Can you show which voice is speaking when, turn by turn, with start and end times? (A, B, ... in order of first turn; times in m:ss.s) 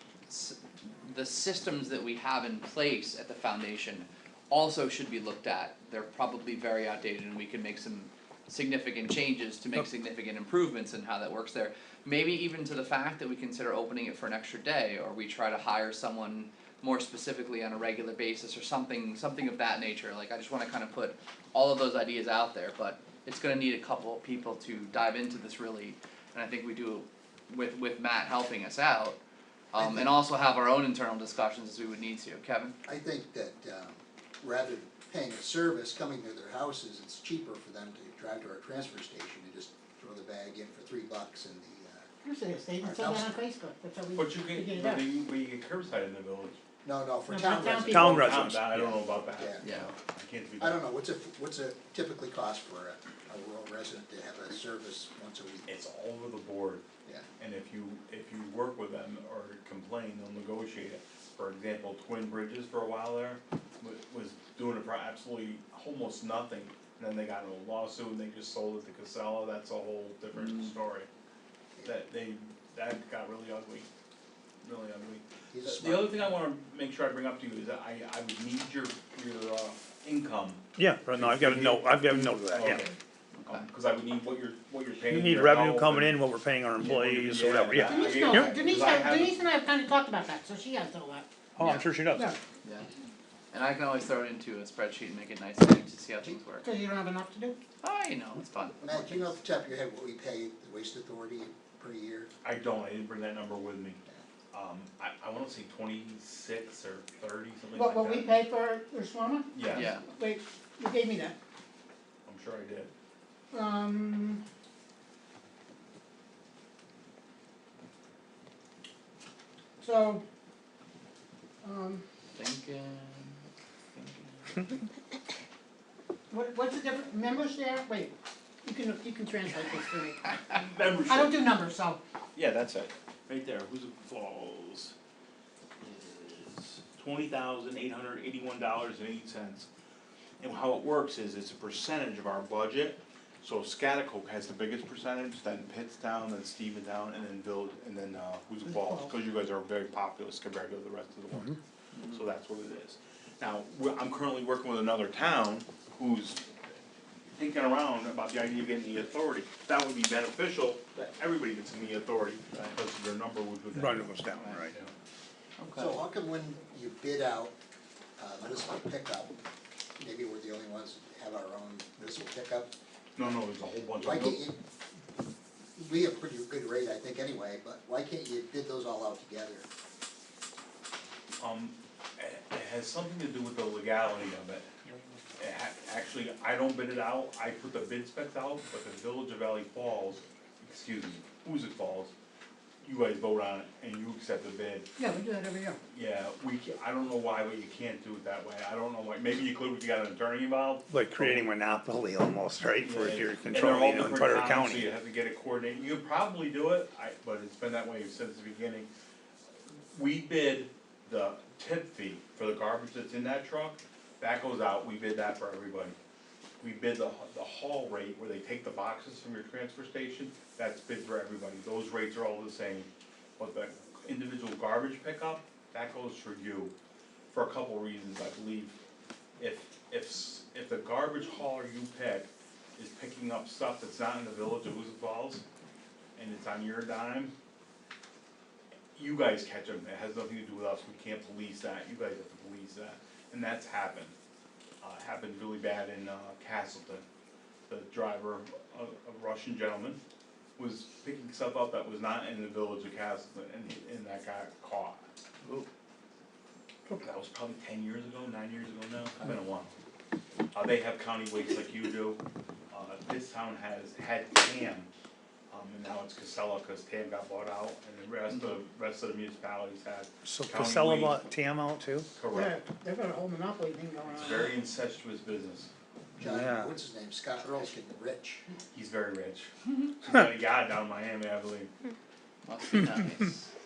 0:00.3-0:29.2 A
0:29.7-0:32.8 A
0:29.8-0:30.1 B
0:32.8-0:42.1 B
0:42.2-0:45.1 C
0:42.8-0:43.3 B
0:44.2-0:46.6 D
0:46.8-0:48.6 B
0:47.3-0:48.2 C
0:47.9-0:48.9 E
0:48.1-0:50.8 D
0:49.3-0:49.6 B
0:49.6-0:49.9 A
0:50.6-0:55.7 B
0:55.7-0:56.8 D
0:57.4-1:11.1 D
1:10.4-1:10.7 A
1:11.8-1:13.9 D
1:14.6-1:26.2 D
1:15.5-1:16.2 B
1:20.8-1:22.9 E
1:23.4-1:23.7 A
1:25.1-1:28.6 E
1:26.8-1:29.4 D
1:27.8-1:31.3 C
1:31.6-1:32.3 E
1:31.6-1:31.9 A
1:32.6-1:32.9 A
1:33.5-1:36.6 A
1:36.6-1:37.6 C
1:37.8-1:39.4 A
1:38.8-1:42.3 B
1:42.4-1:44.0 D
1:44.5-1:48.3 D
1:47.7-1:51.4 C
1:49.5-1:49.9 D
1:49.7-1:50.0 A
1:52.3-1:52.9 D
1:53.5-1:54.4 C
1:59.8-2:00.2 C
2:01.6-2:02.0 C
2:02.4-2:04.8 A
2:06.3-2:08.1 C
2:08.6-2:12.0 C
2:10.5-2:11.4 D
2:12.4-2:14.9 D
2:15.8-2:19.7 D
2:20.4-2:31.6 D
2:31.9-2:32.3 A
2:32.1-2:36.4 D
2:37.3-2:44.9 D
2:43.7-2:44.7 E
2:45.6-2:46.0 A
2:45.8-2:47.5 B
2:48.2-2:49.3 B
2:50.0-2:52.7 B
2:53.2-2:54.5 D
2:54.0-2:54.6 B
2:55.8-2:59.7 B
3:01.4-3:04.7 D
3:05.4-3:12.1 D
3:12.8-3:14.9 D
3:15.0-3:15.8 C
3:15.9-3:21.5 D
3:20.9-3:24.9 E
3:22.8-3:28.9 D
3:29.9-3:36.0 D
3:36.6-3:46.7 D
3:47.3-3:48.8 D
3:49.4-3:55.4 D
3:56.2-3:57.3 D
3:59.0-4:04.1 D
4:04.8-4:07.0 D
4:07.7-4:10.0 D
4:10.6-4:15.1 D
4:17.0-4:19.7 D
4:20.5-4:24.9 D
4:25.5-4:31.2 D
4:30.2-4:32.1 E
4:32.2-4:32.6 D
4:32.3-4:34.5 C
4:34.2-4:35.7 D
4:36.2-4:38.5 B
4:36.2-4:36.7 E
4:38.7-4:41.7 D
4:42.5-4:43.5 A